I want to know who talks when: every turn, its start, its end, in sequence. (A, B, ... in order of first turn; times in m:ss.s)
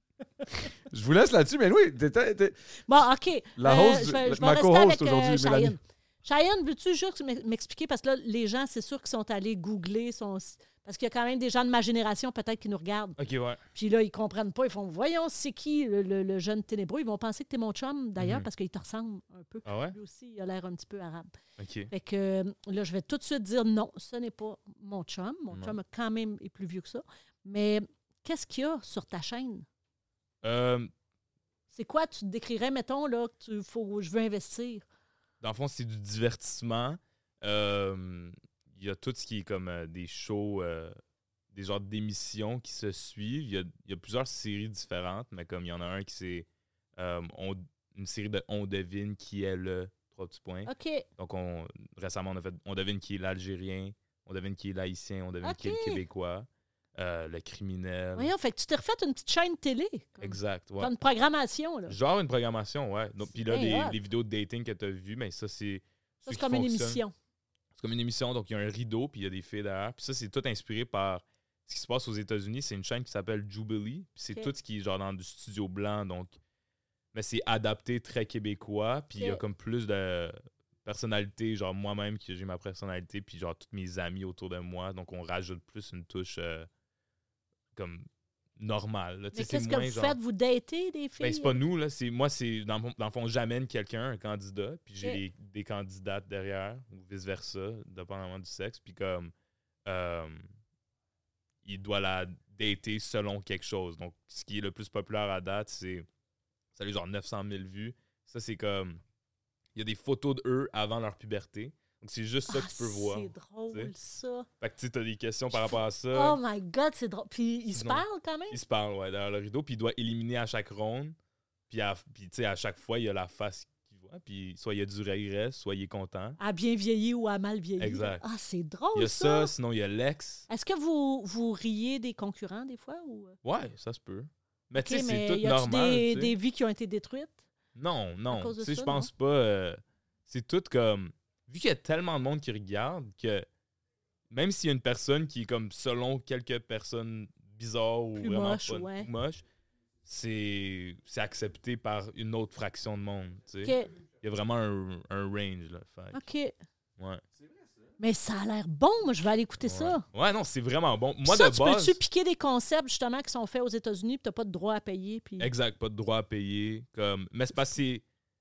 0:00.4-0:00.7 A
0:00.9-0:02.6 B
0:02.9-0:13.2 A
0:03.6-0:05.8 B
0:13.2-0:13.6 C
0:13.7-0:21.3 A
0:18.2-0:18.5 C
0:19.6-0:20.0 C
0:21.6-0:21.9 C
0:21.9-0:29.6 A
0:30.4-0:30.9 C
0:31.7-0:34.8 A
0:35.4-0:40.9 C
0:41.5-0:58.3 C
0:50.7-0:51.0 A
0:55.4-0:56.0 A
0:58.2-1:02.0 A
1:00.2-1:00.9 C
1:01.9-1:07.0 C
1:03.3-1:04.0 A
1:06.2-1:07.1 A
1:07.8-1:16.4 C
1:17.1-1:26.7 C
1:19.1-1:19.4 A
1:27.7-1:28.0 C
1:28.6-1:30.2 C
1:29.3-1:31.6 A
1:31.2-1:39.3 C
1:39.9-1:40.5 C
1:41.6-1:46.0 C
1:46.7-1:49.0 C
1:49.7-1:53.9 C
1:52.5-1:54.4 A
1:54.6-1:56.4 C
1:55.5-1:58.6 A
1:57.7-2:01.2 C
2:01.7-2:06.4 C
2:06.4-2:09.5 A
2:07.8-2:08.2 C
2:08.9-2:10.5 C
2:10.5-2:13.3 A
2:13.4-2:16.3 C
2:14.8-2:17.4 A
2:17.7-2:23.4 C
2:18.3-2:19.1 A
2:24.3-2:29.4 C
2:28.2-2:29.1 A
2:30.0-2:36.2 C
2:33.6-2:33.9 A
2:36.1-2:36.6 A
2:38.0-2:40.0 A
2:39.6-2:42.0 C
2:41.2-2:45.5 A
2:45.4-2:48.0 C